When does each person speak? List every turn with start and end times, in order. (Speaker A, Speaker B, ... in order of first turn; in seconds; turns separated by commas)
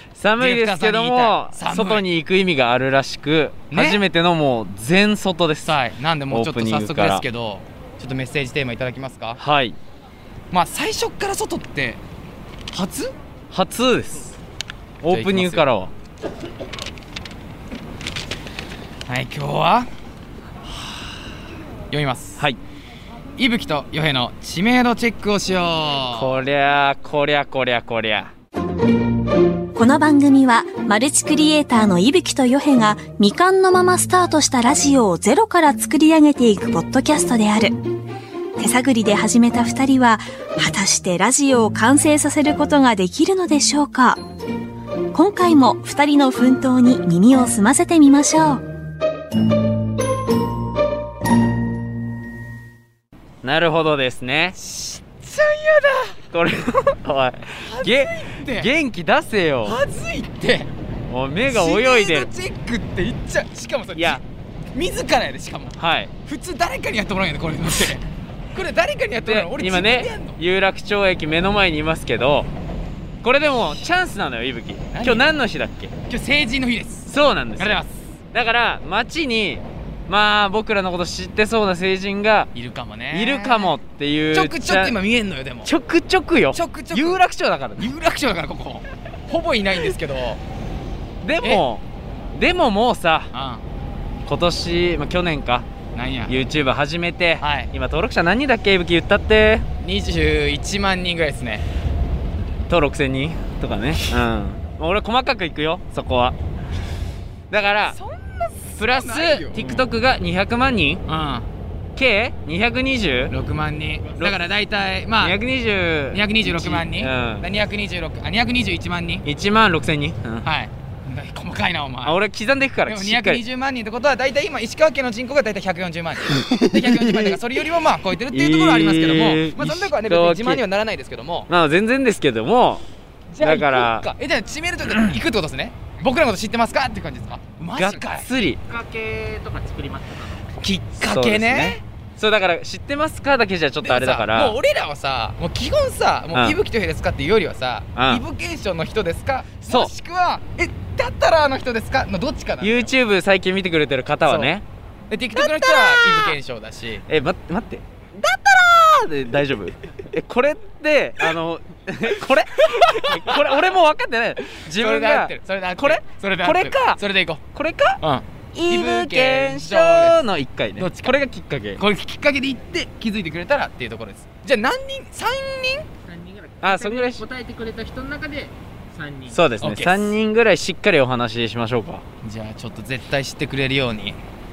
Speaker A: 0.1-7.2, Speaker B: 0.4-2.0, Speaker B: 3.7-4.0, Speaker B: 5.6-9.4, Speaker A: 9.4-9.8, Speaker B: 10.5-12.0, Speaker B: 12.7-13.1, Speaker A: 13.5-14.4, Speaker A: 15.0-15.9, Speaker B: 15.1-15.7, Speaker B: 19.1-19.9, Speaker B: 21.9-22.4, Speaker B: 23.4-26.3, Speaker A: 26.1-28.3, Speaker C: 29.8-37.8, Speaker C: 38.6-44.2, Speaker C: 45.1-48.6, Speaker A: 53.4-54.6, Speaker B: 54.6-56.2, Speaker A: 56.3-59.8, Speaker B: 57.6-58.7, Speaker B: 59.6-60.7, Speaker A: 61.1-62.3, Speaker B: 61.5-64.2, Speaker A: 63.9-64.2, Speaker B: 64.7-68.0, Speaker A: 65.8-66.1, Speaker B: 68.5-70.4, Speaker A: 69.2-72.5, Speaker A: 73.2-75.9, Speaker B: 74.9-75.3, Speaker B: 76.1-77.9, Speaker A: 77.1-77.8, Speaker A: 78.3-82.5, Speaker B: 82.5-83.8, Speaker A: 83.1-85.0, Speaker B: 84.3-85.7, Speaker A: 85.6-87.9, Speaker B: 86.5-87.2, Speaker B: 87.8-90.4, Speaker A: 91.2-91.8, Speaker A: 92.3-93.3, Speaker B: 93.3-93.6, Speaker A: 94.3-95.7, Speaker B: 95.9-96.3, Speaker A: 96.2-99.7, Speaker B: 97.4-97.7, Speaker B: 99.8-101.7, Speaker A: 102.7-106.3, Speaker A: 107.5-108.0, Speaker B: 107.9-109.8, Speaker A: 108.7-111.0, Speaker B: 111.1-111.5, Speaker A: 112.0-113.3, Speaker B: 113.3-115.4, Speaker A: 114.2-114.5, Speaker A: 115.2-117.5, Speaker B: 116.1-119.2, Speaker A: 119.2-120.5, Speaker B: 120.4-122.2, Speaker A: 122.0-123.4, Speaker B: 122.8-131.5, Speaker A: 126.2-127.4, Speaker A: 128.3-130.6, Speaker A: 131.5-132.8, Speaker B: 133.3-138.3, Speaker A: 133.4-134.1, Speaker A: 137.8-138.6, Speaker D: 138.7-140.4, Speaker B: 140.6-141.8, Speaker A: 141.0-144.6, Speaker B: 143.8-152.9, Speaker A: 146.3-146.6, Speaker A: 147.9-148.2, Speaker A: 149.7-149.9, Speaker A: 152.6-154.6, Speaker B: 154.2-154.5, Speaker B: 155.1-157.0, Speaker A: 155.4-156.3, Speaker A: 157.1-167.0, Speaker B: 164.7-167.4, Speaker A: 167.5-168.0, Speaker B: 168.0-170.2, Speaker A: 168.5-171.8, Speaker B: 170.8-171.1, Speaker B: 171.8-175.9, Speaker D: 176.1-179.3, Speaker A: 176.6-177.3, Speaker A: 179.3-182.0, Speaker B: 179.6-180.2, Speaker B: 182.2-184.2